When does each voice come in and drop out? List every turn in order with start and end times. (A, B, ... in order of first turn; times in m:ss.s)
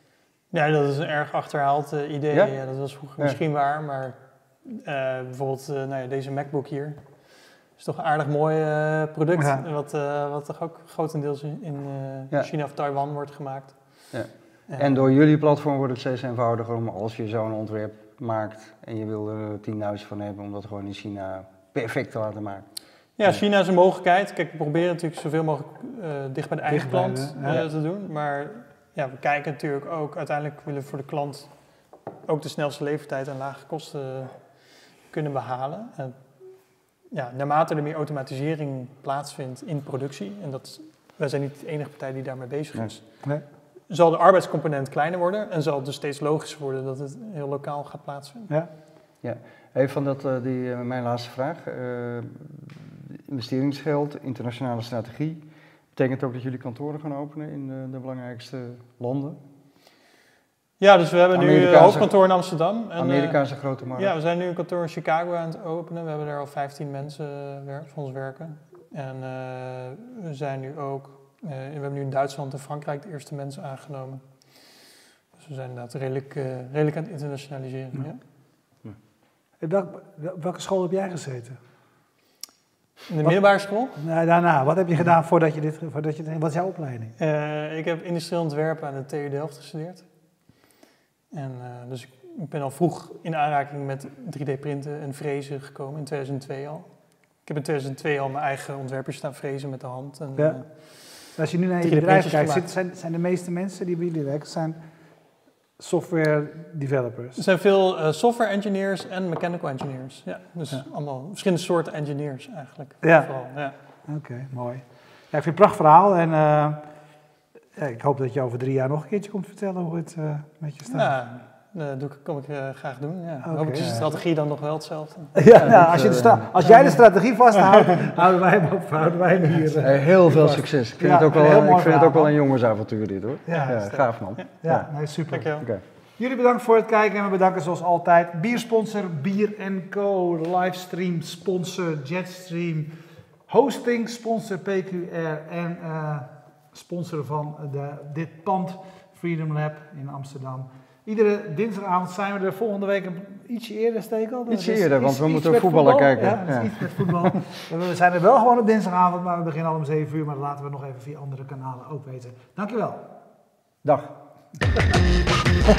0:00.5-0:07.2 A
0:07.7-0:14.1 A
0:09.3-0:09.6 B
0:14.1-0:22.7 C
0:14.7-0:15.0 A
0:23.2-0:43.0 A
0:26.7-0:27.6 B
0:43.9-0:48.5 A
0:49.2-0:55.4 C
0:55.9-0:59.4 C
1:00.8-1:03.4 A
1:01.3-1:02.2 C
1:03.0-1:04.1 C
1:03.9-1:14.7 A
1:15.3-1:18.2 A
1:19.6-1:21.6 B
1:23.1-1:24.0 A
1:23.9-1:27.1 B
1:27.2-1:30.0 A
1:31.3-1:36.9 A
1:37.4-1:41.3 A
1:40.4-1:44.8 B
1:41.8-1:42.7 A
1:45.8-1:47.4 B
1:47.4-1:53.7 A
1:53.0-1:53.3 B
1:54.1-1:56.8 B
1:57.8-2:01.2 B
2:00.8-2:05.7 A
2:03.4-2:04.0 B
2:05.3-2:12.3 B
2:05.6-2:06.6 C
2:06.6-2:07.0 A
2:07.5-2:07.9 A
2:09.8-2:14.9 C
2:13.5-2:13.8 B
2:13.5-2:14.5 A
2:14.6-2:15.5 B
2:15.3-2:15.7 A
2:16.2-2:22.9 B
2:23.5-2:43.1 B
2:34.5-2:37.3 C
2:43.8-2:44.1 C